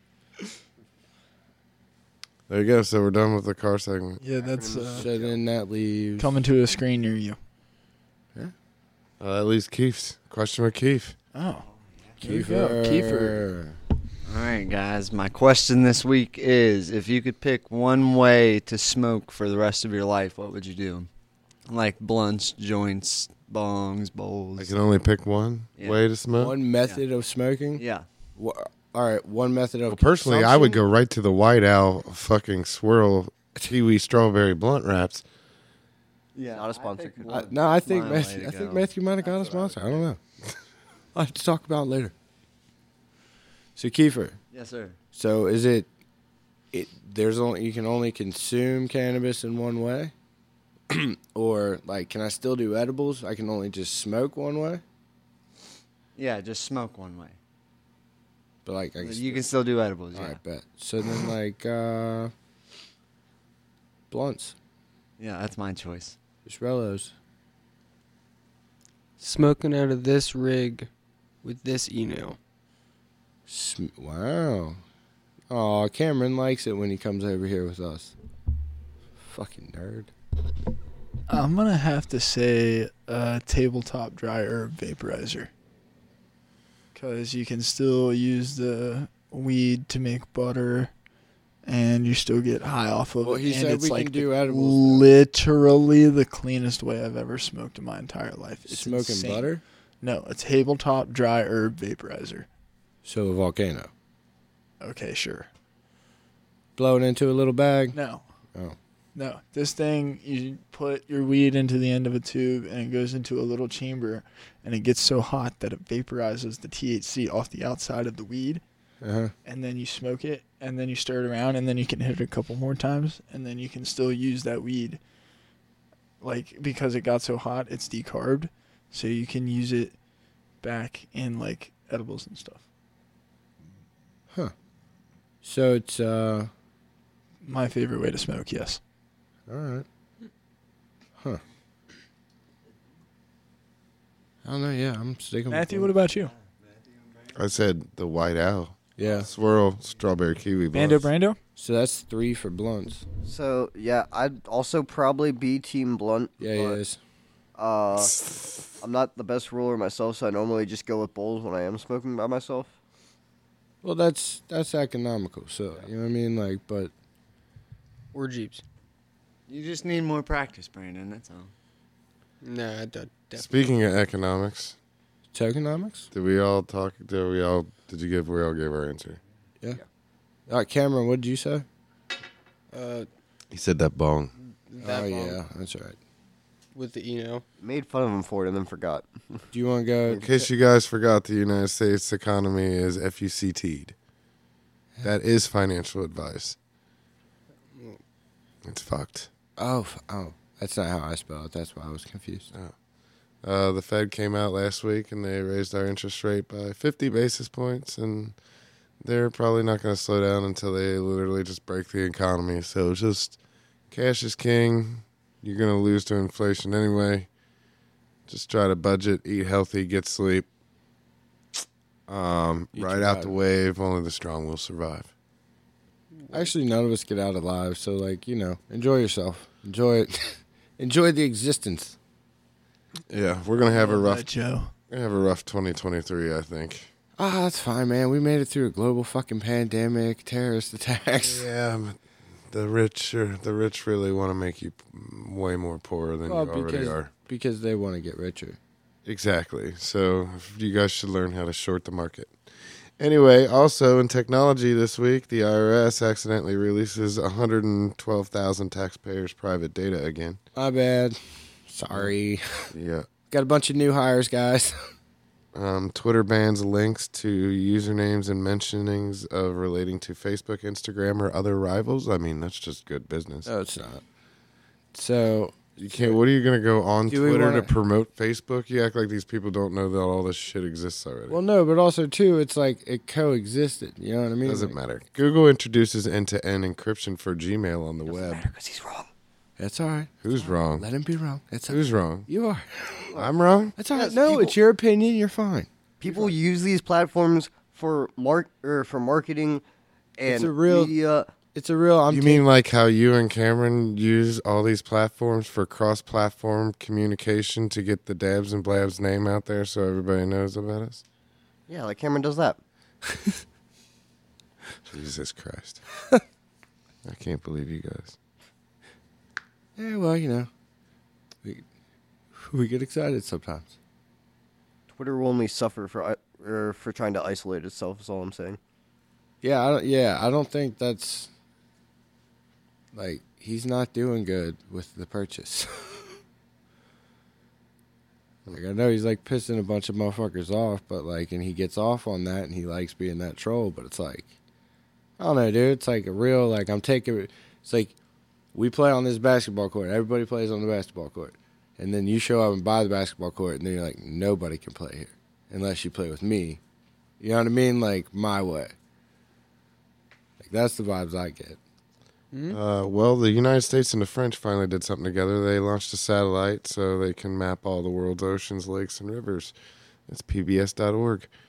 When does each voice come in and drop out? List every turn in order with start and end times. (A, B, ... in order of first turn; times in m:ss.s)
0:02.5-0:04.2 A
0:04.2-0:05.1 B
0:04.4-0:05.4 C
0:05.0-0:06.4 D
0:06.2-0:07.4 B
0:09.2-0:11.2 A
0:11.3-0:11.7 B
0:12.2-0:13.8 D
0:12.2-0:13.4 B
0:14.2-0:21.1 E
0:21.6-0:24.7 E
0:24.6-0:26.5 A
0:25.8-0:26.0 E
0:26.3-0:27.8 D
0:27.8-0:28.0 E
0:28.4-0:30.8 D
0:29.9-0:35.2 A
0:36.3-0:39.8 E
0:36.5-0:37.5 C
0:37.3-0:40.2 D
0:41.1-0:42.1 D
0:43.8-0:44.4 D
0:44.5-0:45.0 E
0:45.1-0:45.9 D
0:46.7-0:50.1 D
0:50.9-0:54.8 D
0:56.2-0:57.4 E
0:58.6-0:59.5 D
0:59.0-1:00.4 E
1:00.1-1:02.3 D
1:04.1-1:04.5 D
1:05.2-1:06.2 E
1:06.4-1:07.1 D
1:09.2-1:10.9 F
1:11.4-1:12.4 F
1:13.5-1:14.8 D
1:15.5-1:18.1 D
1:19.2-1:20.1 D
1:21.3-1:25.5 B
1:26.9-1:30.9 B
1:31.6-1:39.5 B
1:33.2-1:35.1 D
1:38.7-1:39.6 D
1:40.0-1:42.5 B
1:43.0-1:43.9 D
1:44.8-1:45.5 B
1:46.8-1:48.0 D
1:47.9-1:48.2 B
1:49.1-1:58.6 B
1:59.0-1:59.3 D
1:59.4-2:05.0 B
2:06.2-2:09.9 B
2:10.6-2:12.6 B
2:15.4-2:16.5 D
2:17.4-2:18.8 B
2:19.5-2:19.8 D
2:24.4-2:25.9 D
2:25.5-2:26.3 B
2:27.3-2:31.1 A
2:29.0-2:29.3 D
2:30.7-2:31.4 B
2:31.6-2:33.0 D
2:33.2-2:36.8 C
2:36.4-2:37.0 D
2:37.6-2:38.2 C
2:38.0-2:38.6 A
2:38.8-2:42.7 C
2:43.8-2:46.9 D
2:48.1-2:48.6 F
2:49.5-2:51.5 E
2:52.4-2:53.5 F
2:53.4-2:54.8 A
2:55.3-2:56.1 D
2:56.1-2:59.2 A
3:00.5-3:01.6 D
3:02.7-3:03.1 F
3:03.5-3:04.3 A
3:04.7-3:05.4 F
3:04.8-3:06.0 D
3:06.7-3:07.4 F
3:07.6-3:09.4 C
3:09.5-3:10.4 D
3:10.1-3:13.9 A
3:15.0-3:16.6 A
3:18.6-3:19.3 A
3:19.6-3:22.5 D
3:23.4-3:28.4 A
3:29.0-3:33.4 A
3:33.9-3:37.3 A
3:38.3-3:40.5 A
3:42.1-3:45.1 A
3:42.7-3:43.3 D
3:46.2-3:46.5 F
3:46.3-3:52.0 D
3:53.1-3:54.3 A
3:53.7-3:54.7 B
3:54.9-3:56.9 A
3:57.2-4:01.4 D
4:01.2-4:02.0 A
4:02.5-4:07.1 A
4:06.3-4:08.6 D
4:09.0-4:12.3 A
4:13.0-4:20.4 A
4:20.6-4:22.7 D
4:22.7-4:23.1 A
4:23.3-4:24.9 D
4:25.5-4:33.5 A
4:33.4-4:34.0 D
4:34.9-4:36.2 D
4:35.8-4:41.4 A
4:37.1-4:37.7 D
4:41.3-4:44.7 D
4:44.4-4:48.5 A
4:48.2-4:49.0 E
4:49.6-4:53.2 D
4:50.2-4:50.9 A
4:51.7-4:52.3 A
4:53.1-4:53.8 A
4:53.8-4:55.7 D
4:53.9-4:54.6 C
4:56.0-4:59.6 C
5:00.2-5:01.3 C
5:00.2-5:00.9 D
5:01.5-5:02.4 D
5:02.1-5:11.0 A
5:11.7-5:12.6 C
5:13.1-5:13.3 D
5:14.9-5:15.8 A
5:17.0-5:18.2 A
5:19.8-5:20.5 D
5:22.3-5:23.7 D
5:24.9-5:28.6 C
5:29.4-5:31.3 D
5:32.9-5:36.1 D
5:38.5-5:44.3 D
5:45.2-5:47.9 D
5:48.5-5:56.6 D
5:57.2-5:58.7 D
6:00.4-6:01.6 D
6:02.3-6:02.6 F
6:02.5-6:09.5 A
6:10.1-6:11.3 A